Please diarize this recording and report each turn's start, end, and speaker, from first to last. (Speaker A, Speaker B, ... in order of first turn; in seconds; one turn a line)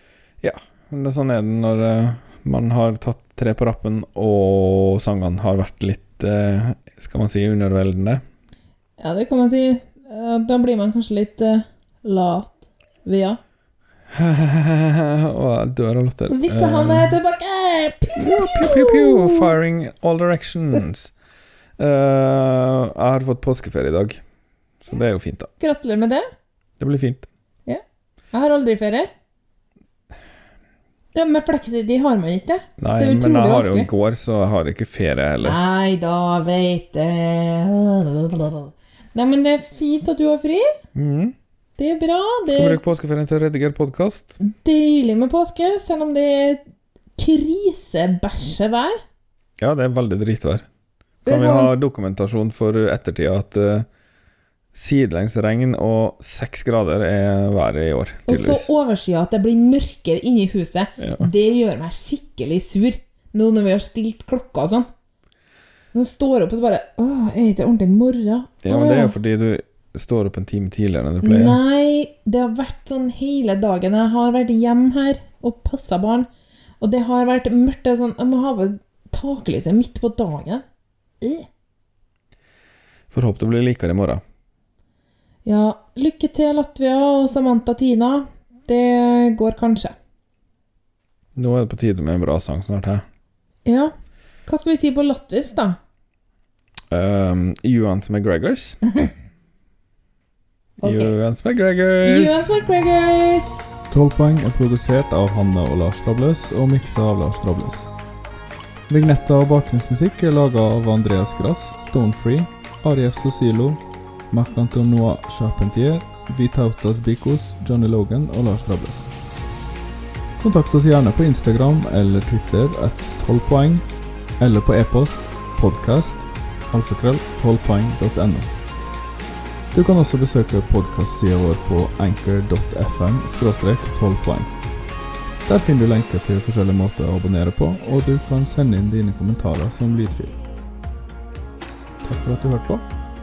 Speaker A: 0.4-8.2
Speaker B: 9.0-13.4
Speaker A: 14.2-17.1
Speaker B: 16.3-19.5
Speaker A: 18.2-21.1
Speaker A: 21.8-24.2
Speaker A: 24.8-25.5
Speaker B: 25.6-26.2
Speaker A: 26.8-27.3
Speaker B: 28.3-29.1
Speaker B: 31.1-33.9
Speaker A: 32.8-35.6
Speaker B: 35.4-40.7
Speaker A: 41.0-41.3
Speaker B: 41.8-42.8
Speaker A: 42.5-44.4
Speaker B: 44.4-46.6
Speaker B: 47.2-49.0
Speaker A: 49.6-50.7
Speaker B: 51.3-51.7
Speaker A: 51.3-53.9
Speaker A: 54.7-58.7
Speaker B: 58.3-64.9
Speaker A: 61.0-61.3
Speaker B: 65.9-69.2
Speaker A: 68.6-71.6
Speaker B: 71.2-76.3
Speaker B: 76.8-80.6
Speaker B: 81.2-81.5
Speaker A: 83.1-84.2
Speaker B: 85.5-89.9
Speaker A: 91.4-93.0
Speaker B: 93.7-93.9
Speaker B: 94.5-95.8
Speaker A: 96.9-98.8
Speaker B: 100.8-101.2
Speaker A: 100.8-102.5
Speaker B: 102.0-103.6
Speaker C: 103.9-107.9
Speaker C: 108.9-119.1
Speaker C: 120.4-123.9
Speaker C: 124.4-128.5
Speaker C: 129.7-134.5
Speaker C: 135.4-140.4
Speaker C: 142.0-142.9